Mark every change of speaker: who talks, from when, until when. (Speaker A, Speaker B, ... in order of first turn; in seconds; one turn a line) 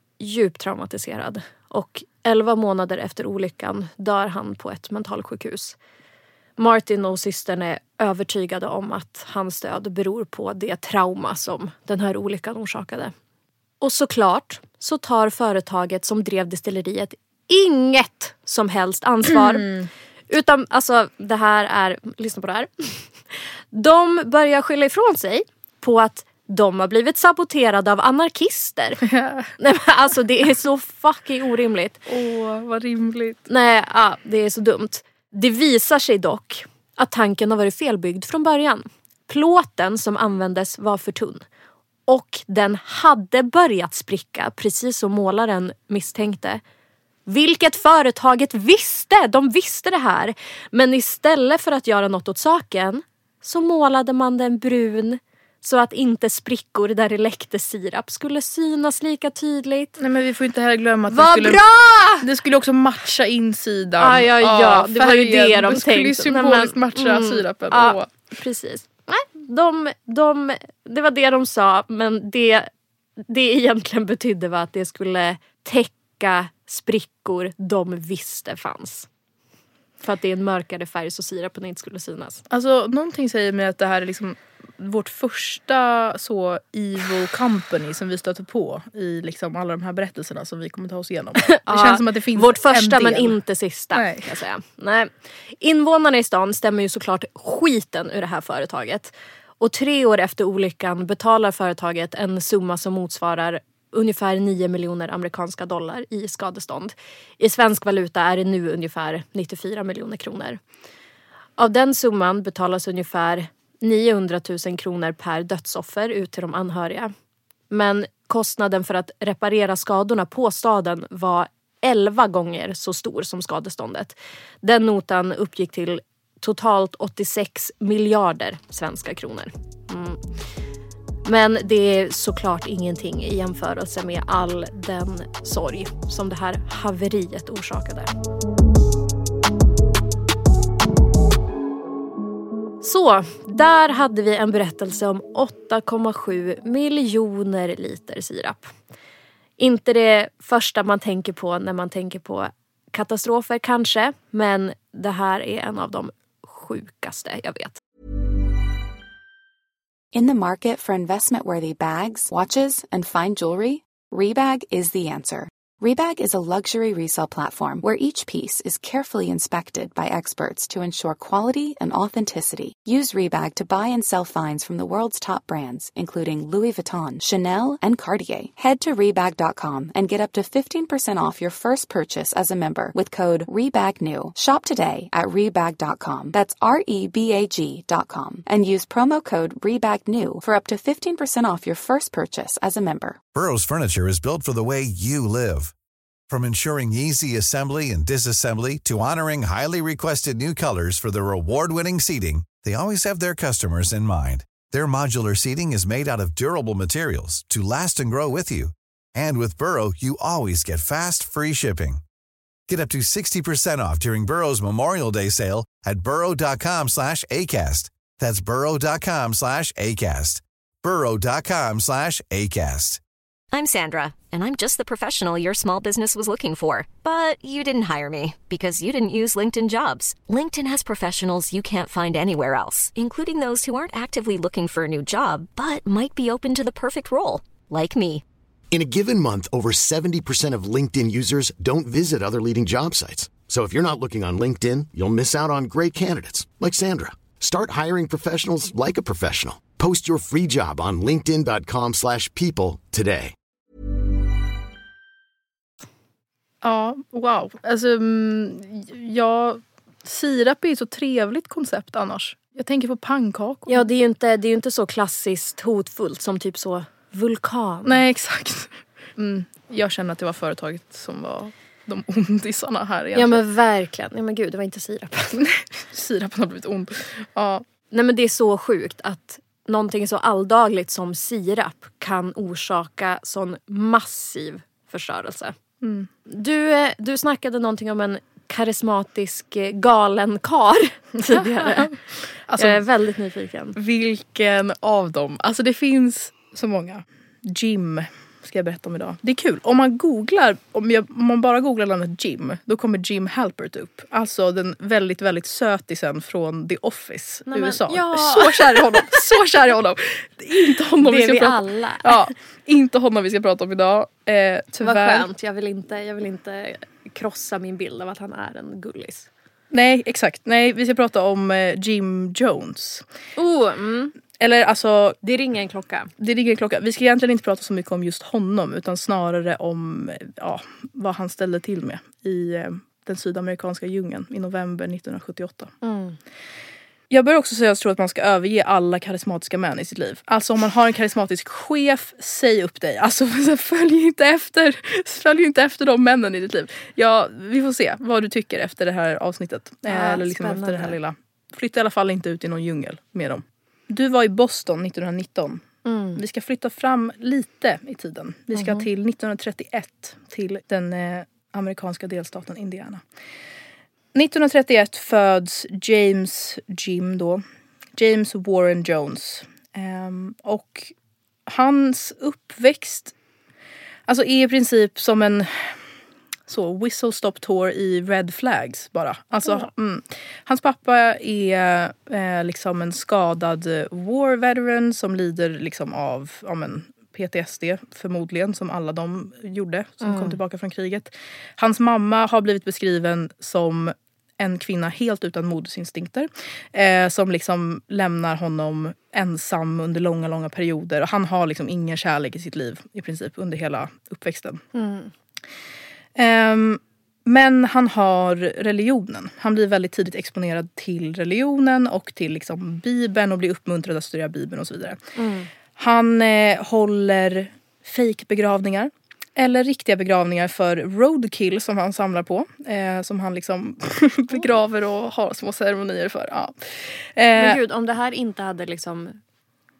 Speaker A: 0.2-5.8
Speaker A: 6.6-13.1
Speaker A: 13.8-19.7
Speaker B: 19.6-19.8
Speaker A: 20.3-23.1
Speaker A: 23.7-29.1
Speaker B: 29.1-29.5
Speaker A: 29.6-32.0
Speaker B: 32.1-33.4
Speaker A: 33.5-41.4
Speaker A: 42.1-46.6
Speaker A: 47.3-60.0
Speaker B: 60.0-61.6
Speaker A: 61.1-62.3
Speaker B: 62.2-68.1
Speaker A: 64.0-72.7
Speaker A: 73.2-79.1
Speaker A: 80.0-82.4
Speaker B: 82.5-93.4
Speaker A: 91.5-110.6
Speaker B: 93.9-94.3
Speaker A: 111.6-117.1
Speaker A: 117.7-130.2
Speaker A: 131.2-138.1
Speaker A: 142.8-148.7
Speaker A: 149.6-157.8
Speaker C: 160.1-193.2
Speaker D: 193.3-195.7
Speaker D: 196.3-212.0
Speaker D: 212.7-223.0
Speaker E: 223.5-238.2
Speaker F: 238.7-253.3
Speaker B: 256.6-263.8
Speaker A: 263.7-268.0
Speaker B: 267.8-273.4
Speaker A: 273.1-275.4
Speaker B: 275.4-277.6
Speaker A: 277.9-285.5
Speaker B: 285.8-286.1
Speaker A: 286.3-291.9
Speaker B: 291.2-291.9
Speaker B: 292.5-292.8
Speaker A: 292.5-293.8
Speaker B: 293.8-315.3
Speaker A: 307.5-309.3
Speaker A: 311.0-312.3
Speaker A: 314.8-319.3
Speaker B: 319.7-323.0
Speaker A: 323.4-324.1
Speaker B: 324.4-325.2
Speaker A: 325.2-326.1
Speaker B: 326.2-335.7
Speaker A: 335.8-336.2
Speaker B: 337.1-363.0
Speaker A: 349.9-351.0
Speaker A: 355.8-356.2
Speaker A: 358.5-358.8
Speaker B: 364.1-367.4
Speaker B: 367.9-370.9
Speaker B: 371.5-373.1
Speaker B: 374.1-375.8
Speaker B: 376.5-404.6
Speaker A: 390.0-390.4
Speaker A: 404.7-405.1
Speaker B: 406.1-415.0
Speaker A: 415.1-415.5
Speaker B: 415.8-427.6
Speaker A: 427.4-429.2